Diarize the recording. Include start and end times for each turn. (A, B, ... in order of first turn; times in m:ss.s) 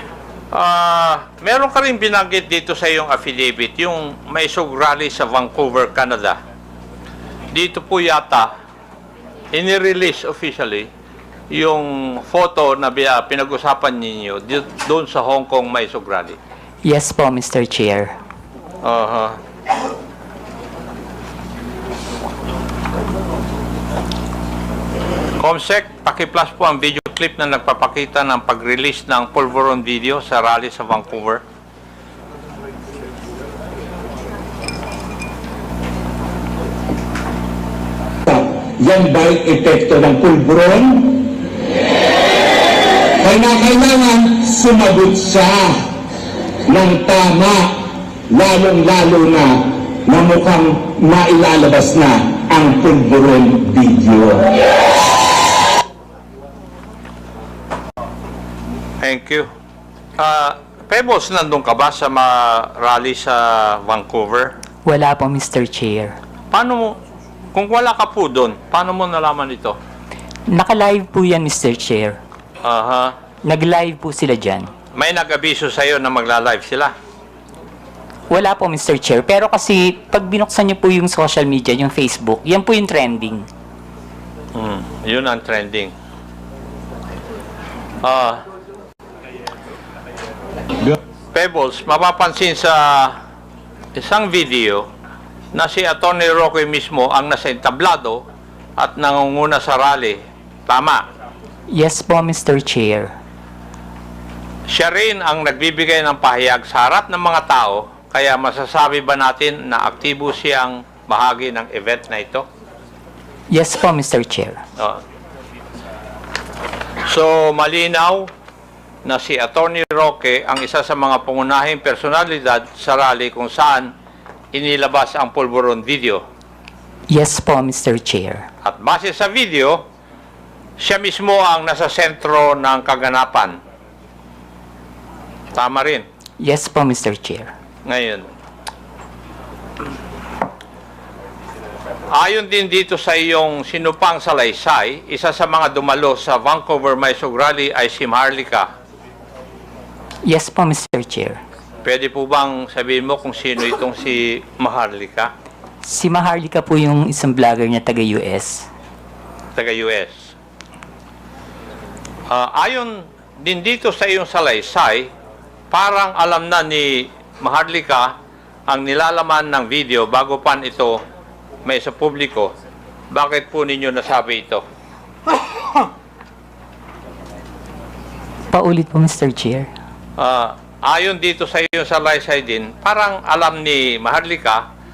0:00.5-0:06.4 A
0:07.5-0:08.5 A
0:09.5-0:10.9 A
0:11.5-0:16.4 A
0:16.8-0:18.1 B
0:18.8-0:19.4 A
0:25.4-0:31.4 A
0:38.3-0:41.3 C
0:43.2-0:45.8 C
0:46.7-0:47.7 C
0:48.3-0:54.5 C
0:59.0-0:59.5 A
1:00.2-1:04.5 A
1:04.9-1:06.2 B
1:06.5-1:07.0 A
1:07.5-1:09.8 A
1:10.5-1:12.2 B
1:12.6-1:13.1 A
1:13.5-1:14.7 B
1:15.0-1:16.9 A
1:18.3-1:23.5 B
1:24.6-1:25.9 A
1:28.0-1:28.4 A
1:31.3-1:33.2 A
1:34.0-1:34.8 A
1:35.5-1:38.2 A
1:38.8-1:41.0 A
1:41.7-1:43.1 B
1:44.7-1:52.4 A
1:53.5-1:54.6 B
1:57.1-1:58.3 A
1:59.1-2:03.9 A
2:04.5-2:06.2 A
2:07.1-2:08.5 B
2:08.6-2:09.8 A
2:10.8-2:13.6 A
2:15.5-2:16.0 A
2:16.4-2:17.5 B
2:17.9-2:18.3 A
2:22.1-2:28.7 A
2:30.2-2:31.4 B
2:31.8-2:35.3 A
2:35.8-2:38.7 B
2:39.6-2:40.3 A
2:42.3-2:45.1 A
2:45.7-2:48.1 A
2:48.7-2:51.0 A
2:51.7-2:52.5 A
2:53.1-2:54.6 A
2:58.5-2:59.7 B
3:00.2-3:04.6 A